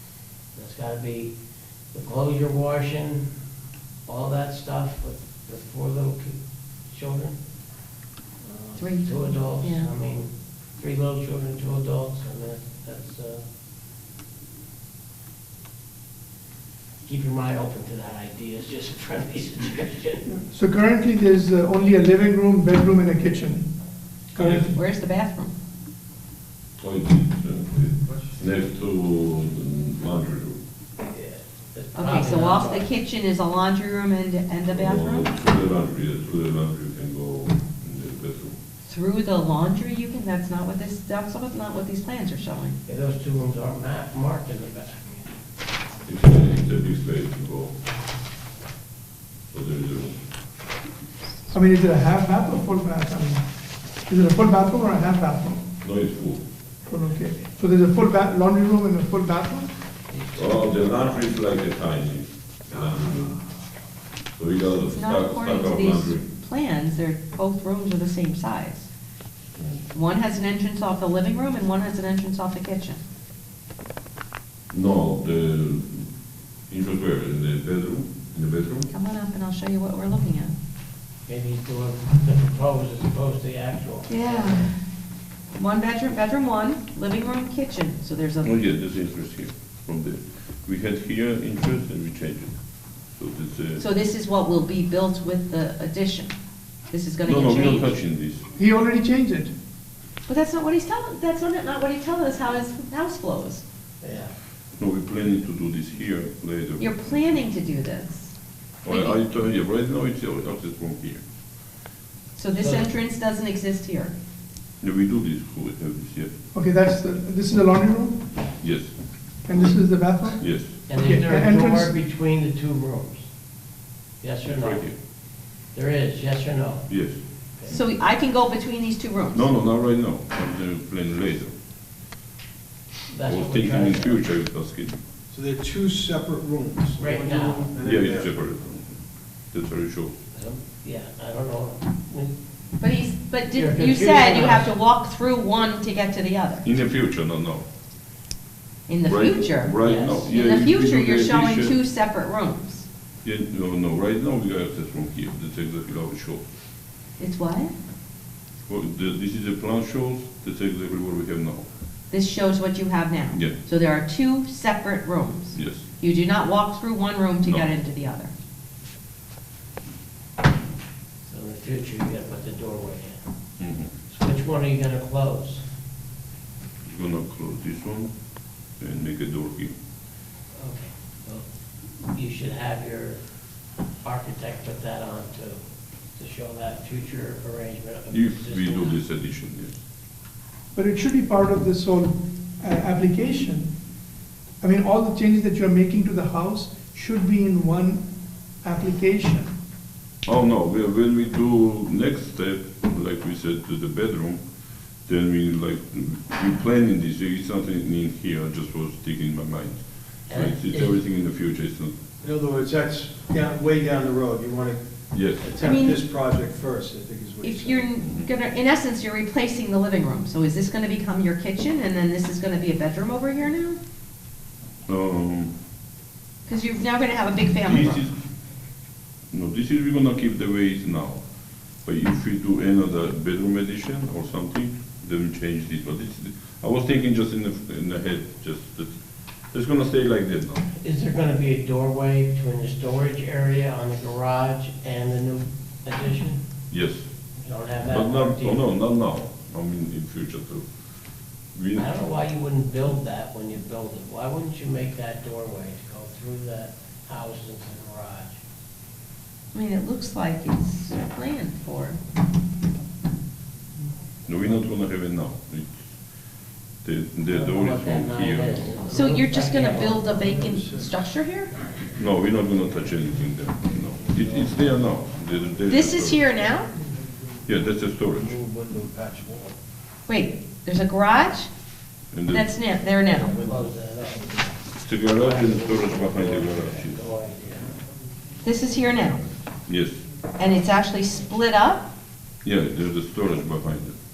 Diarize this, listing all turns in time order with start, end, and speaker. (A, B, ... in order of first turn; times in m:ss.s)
0:00.6-0:01.3 A
0:01.9-0:03.3 A
0:04.1-0:07.4 A
0:08.4-0:13.4 A
0:08.8-0:09.9 B
0:17.0-0:20.3 A
0:20.3-0:23.7 C
0:24.3-0:24.8 C
0:24.4-0:24.7 D
0:24.7-0:25.5 B
0:26.8-0:30.6 D
0:31.0-0:32.9 A
0:32.0-0:35.3 B
0:34.7-0:38.6 D
0:38.8-0:42.8 B
0:42.9-0:45.3 A
0:46.1-0:47.8 D
0:49.5-0:50.2 D
0:51.5-0:53.4 C
0:54.1-0:55.6 C
0:55.8-0:56.4 D
0:56.9-0:59.7 C
1:00.1-1:01.3 A
1:00.4-1:03.4 D
1:04.4-1:06.2 D
1:04.8-1:08.9 B
1:09.6-1:09.8 D
1:09.9-1:13.0 B
1:14.7-1:16.1 D
1:16.7-1:18.9 D
1:18.9-1:20.6 B
1:21.3-1:24.7 A
1:24.1-1:24.8 B
1:25.5-1:28.5 B
1:28.4-1:32.5 D
1:33.1-1:33.8 D
1:33.8-1:36.3 B
1:36.9-1:38.0 B
1:37.2-1:38.4 D
1:38.6-1:39.5 C
1:40.3-1:43.6 B
1:44.0-1:44.3 A
1:44.8-1:47.1 D
1:46.8-1:48.4 B
1:48.8-1:51.2 D
1:48.9-1:49.2 B
1:52.4-1:54.1 B
1:52.6-1:52.9 A
1:54.8-1:56.3 D
1:56.5-1:58.3 C
1:58.6-1:58.9 D
1:59.5-2:00.4 C
2:00.4-2:00.9 D
2:00.9-2:03.3 A
2:01.0-2:01.9 C
2:04.2-2:04.9 A
2:04.4-2:05.0 D
2:05.7-2:06.9 A
2:06.9-2:07.2 D
2:07.7-2:09.5 B
2:09.3-2:11.5 D
2:13.1-2:14.3 A
2:13.3-2:15.0 D
2:15.3-2:18.4 E
2:17.0-2:17.7 A
2:17.8-2:20.1 D
2:20.3-2:22.3 A
2:22.8-2:26.7 B
2:23.5-2:24.7 A
2:26.6-2:27.6 D
2:28.9-2:32.9 B
2:29.1-2:31.8 D
2:29.8-2:30.2 A
2:33.2-2:36.5 D
2:37.2-2:37.7 B
2:38.7-2:41.7 D
2:42.1-2:48.3 B
2:43.3-2:43.6 D
2:45.5-2:45.8 D
2:47.4-2:47.7 D
2:51.3-2:53.2 A
2:53.6-2:53.9 D
2:54.1-2:55.7 A
2:56.8-2:58.1 D
2:58.8-2:59.8 D
3:00.6-3:01.5 A
3:02.1-3:03.2 A
3:04.0-3:05.6 A
3:06.2-3:09.0 A
3:08.1-3:09.8 D
3:10.8-3:13.7 C
3:14.6-3:18.0 C
3:18.6-3:19.5 C
3:20.2-3:24.4 D
3:25.1-3:32.0 D
3:30.3-3:31.0 A
3:32.2-3:34.8 E
3:35.1-3:35.6 D
3:35.3-3:38.0 E
3:35.6-3:36.0 B
3:37.4-3:43.8 B
3:38.0-3:38.3 D
3:44.9-3:45.5 D
3:46.5-3:48.0 B
3:47.6-3:48.1 D
3:49.3-3:51.2 D
3:51.8-3:58.9 D
3:59.5-4:00.7 D
4:00.8-4:06.4 A
4:06.7-4:07.1 D
4:07.4-4:08.6 A
4:07.9-4:10.7 D
4:11.5-4:11.9 D
4:11.8-4:18.4 A
4:19.5-4:22.0 B
4:24.3-4:25.8 D
4:26.8-4:28.6 D
4:27.3-4:30.6 A
4:28.9-4:31.5 B
4:32.0-4:36.2 D
4:35.7-4:36.8 B
4:37.5-4:38.4 D
4:38.2-4:39.6 E
4:40.1-4:41.5 B
4:42.1-4:42.5 D
4:42.3-4:43.4 B
4:43.2-4:47.7 A
4:43.4-4:43.7 E
4:44.8-4:47.0 D
4:48.4-4:49.2 B
4:49.7-4:50.0 D
4:50.4-4:51.9 B
4:52.4-4:54.0 D